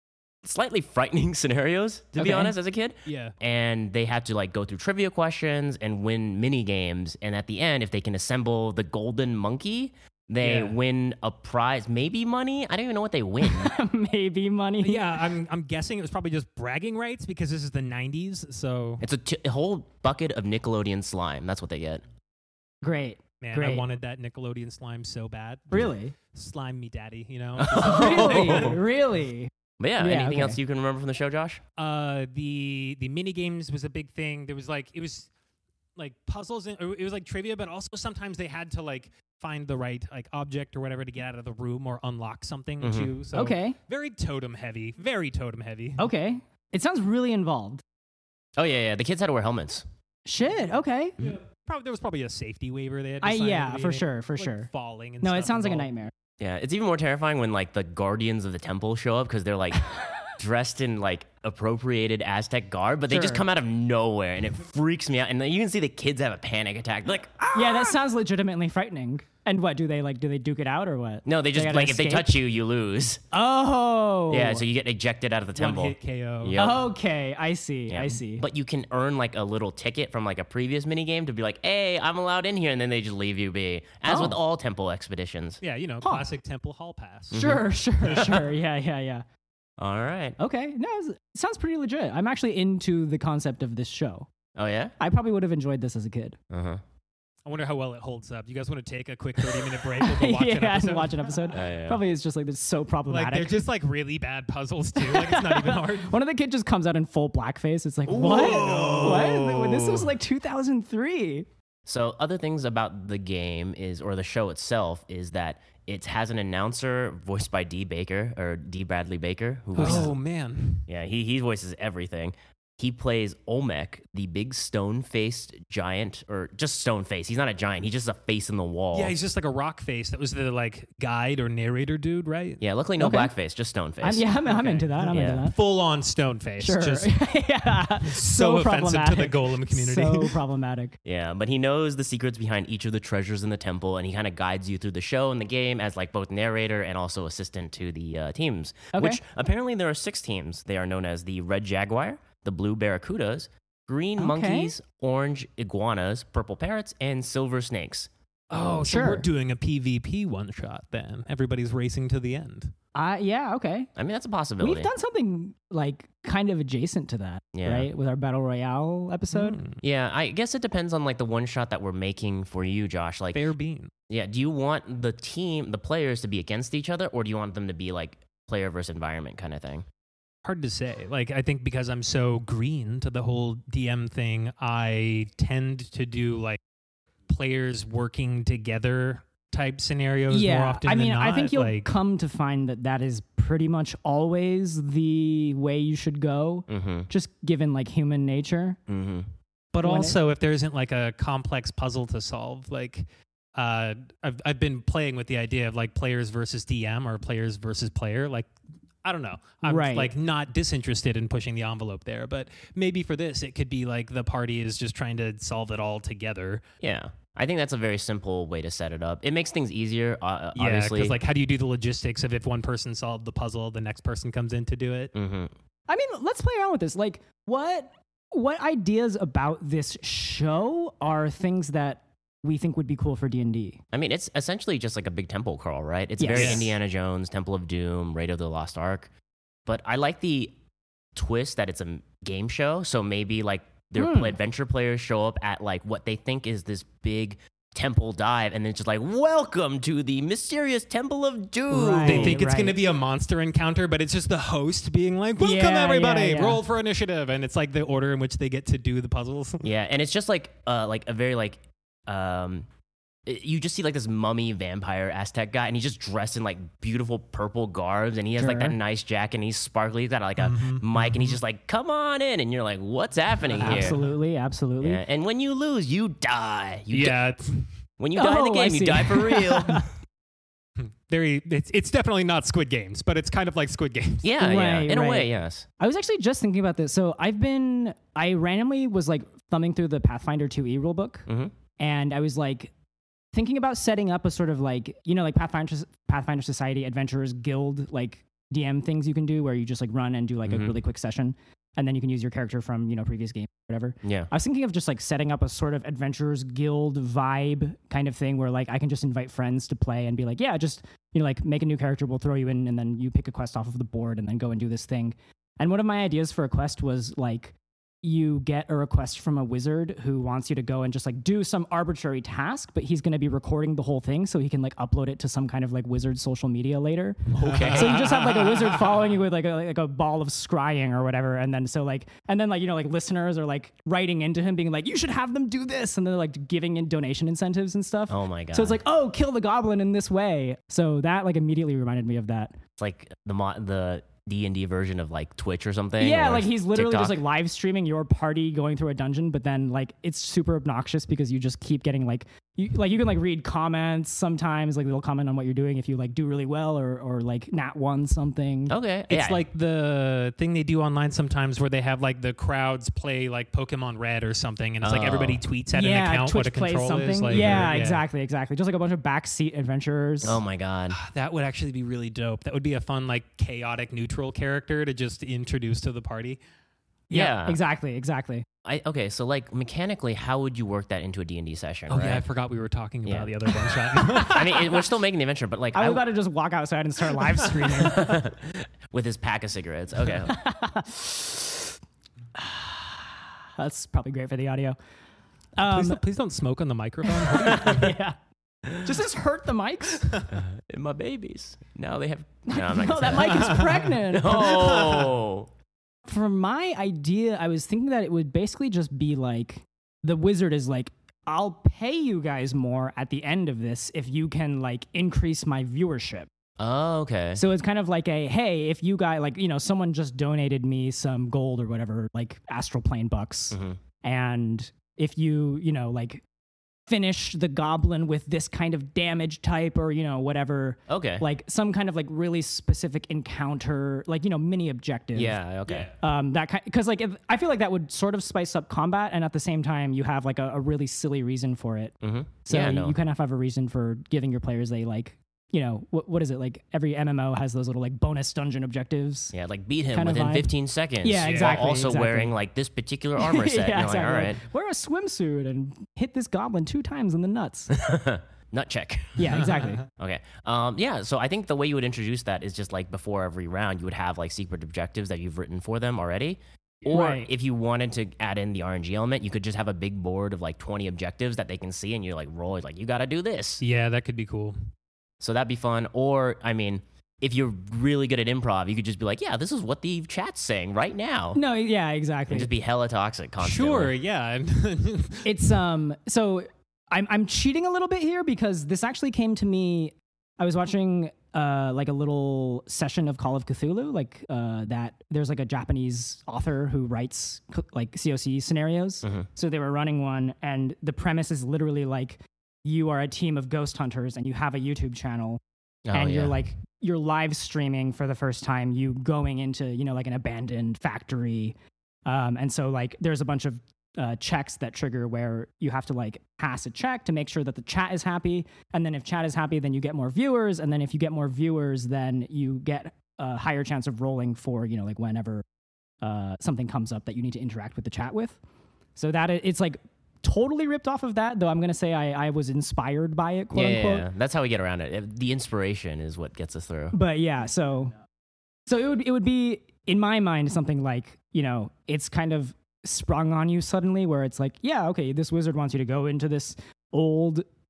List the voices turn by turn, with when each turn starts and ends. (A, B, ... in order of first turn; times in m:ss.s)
0:00.4-0:13.7 A
0:02.2-0:03.3 B
0:10.4-0:10.8 B
0:13.4-0:15.2 C
0:14.8-0:19.0 B
0:19.0-0:22.0 A
0:22.8-0:23.8 C
0:23.4-0:28.8 B
0:25.7-0:26.1 C
0:27.6-0:28.8 A
0:27.7-0:30.6 C
0:29.8-0:31.6 A
0:31.8-0:35.3 B
0:36.0-0:46.0 B
0:42.8-0:43.1 A
0:43.3-0:43.8 C
0:46.0-0:47.8 C
0:48.6-0:49.8 A
0:50.2-0:51.2 C
0:51.2-0:55.9 B
0:53.2-0:54.7 C
0:55.2-0:56.1 C
0:56.4-0:59.8 A
1:00.4-1:07.9 A
1:03.1-1:03.4 C
1:07.4-1:12.4 C
1:11.2-1:13.2 A
1:13.3-1:14.6 C
1:14.3-1:16.9 A
1:15.6-1:16.6 B
1:16.6-1:18.4 C
1:17.9-1:25.6 A
1:24.1-1:24.4 C
1:25.6-1:27.4 B
1:27.3-1:27.6 A
1:27.3-1:29.2 C
1:28.1-1:28.3 B
1:29.8-1:30.4 A
1:30.4-1:34.3 C
1:34.5-1:34.9 A
1:35.0-1:36.4 C
1:36.5-1:36.8 A
1:37.4-1:41.5 B
1:39.7-1:43.5 C
1:41.5-1:42.0 A
1:43.1-1:46.1 B
1:45.0-1:51.5 C
1:48.1-1:50.1 A
1:48.2-1:49.4 B
1:51.8-2:00.2 A
1:59.8-2:00.1 C
1:59.8-2:00.8 B
2:00.9-2:09.1 A
2:08.9-2:12.6 B
2:12.6-2:14.2 A
2:13.0-2:13.3 C
2:14.0-2:15.6 C
2:14.4-2:17.1 B
2:15.1-2:15.5 A
2:16.6-2:21.0 C
2:18.0-2:20.4 B
2:21.0-2:38.1 A
2:28.9-2:29.2 C
2:34.2-2:34.7 C
2:38.5-2:42.7 B
2:38.7-2:39.3 C
2:42.9-2:43.9 C
2:44.0-2:44.9 A
2:44.6-2:49.6 C
2:47.5-2:47.9 A
2:49.3-2:49.8 B
2:49.8-2:53.4 A
2:53.3-2:53.9 B
2:54.1-2:59.8 A
3:00.4-3:06.6 B
3:07.3-3:11.9 B
3:10.3-3:18.8 C
3:16.7-3:17.1 A
3:18.9-3:19.3 A
3:19.7-3:28.5 B
3:19.8-3:20.2 C
3:29.0-3:36.6 B
3:29.6-3:30.1 C
3:36.8-3:41.2 A
3:40.5-3:45.1 B
3:45.1-3:45.5 A
3:45.9-3:53.8 C
3:53.9-3:59.1 A
3:56.2-3:56.7 C
3:56.3-3:56.7 B
3:59.6-4:00.6 A
4:01.1-4:12.4 A
4:04.0-4:04.4 C
4:11.7-4:12.8 C
4:12.0-4:19.6 B
4:15.4-4:16.6 C
4:19.6-4:22.7 A
4:23.2-4:34.0 A
4:28.4-4:28.8 C
4:30.4-4:31.4 B
4:33.4-4:34.1 B
4:33.6-4:35.0 C
4:34.8-4:37.2 A
4:36.9-4:37.7 B
4:38.0-4:39.9 A
4:38.2-4:39.9 C
4:40.8-4:44.3 B
4:44.2-4:45.6 A
4:44.4-4:51.3 C
4:51.3-4:51.5 A
4:51.8-4:52.7 C
4:53.3-5:42.6 C
5:00.4-5:00.7 A
5:04.0-5:04.3 A
5:27.3-5:28.0 A
5:27.3-5:29.0 B
5:38.1-5:38.8 A
5:42.8-5:47.2 A
5:46.0-5:58.8 C
5:58.7-5:59.4 A
5:59.1-6:08.0 B
6:04.8-6:05.4 A
6:05.7-6:10.4 C
6:07.3-6:07.7 A
6:10.2-6:11.0 A
6:10.9-6:16.4 B
6:17.1-6:18.4 C
6:17.1-6:17.6 A
6:18.6-6:22.2 A
6:21.9-6:24.7 B
6:23.0-6:26.0 A
6:25.7-6:28.3 C
6:27.7-6:30.4 A
6:30.3-6:31.7 C
6:32.4-6:34.8 C
6:35.6-6:36.0 C
6:35.6-6:37.9 B
6:37.1-6:38.2 C
6:38.6-6:38.9 A
6:38.8-6:40.2 C
6:40.3-6:45.5 A
6:42.5-6:44.8 C
6:43.4-6:45.2 B
6:46.0-6:56.3 C
6:56.6-6:57.4 A
6:57.4-7:06.2 C
7:03.5-7:03.8 A
7:06.9-7:15.4 C
7:10.9-7:11.2 A
7:15.1-7:15.9 A
7:16.0-7:21.9 C
7:22.0-7:23.0 A
7:22.5-7:29.3 C
7:29.3-7:34.4 A
7:29.9-7:32.3 C
7:31.2-7:31.6 B
7:33.2-7:37.7 C
7:37.7-7:53.6 A
7:39.2-7:39.8 C
7:39.4-7:39.8 B
7:46.9-7:47.3 C
7:53.6-7:54.5 B
7:55.2-8:01.4 A
8:01.3-8:02.5 C
8:02.3-8:03.9 A
8:03.4-8:05.6 B
8:05.2-8:25.4 C
8:25.8-8:26.4 A
8:25.9-8:45.4 C
8:46.0-8:48.4 C
8:49.0-8:54.1 C
8:53.5-8:57.0 A
8:56.9-8:57.9 C
8:58.7-9:07.4 C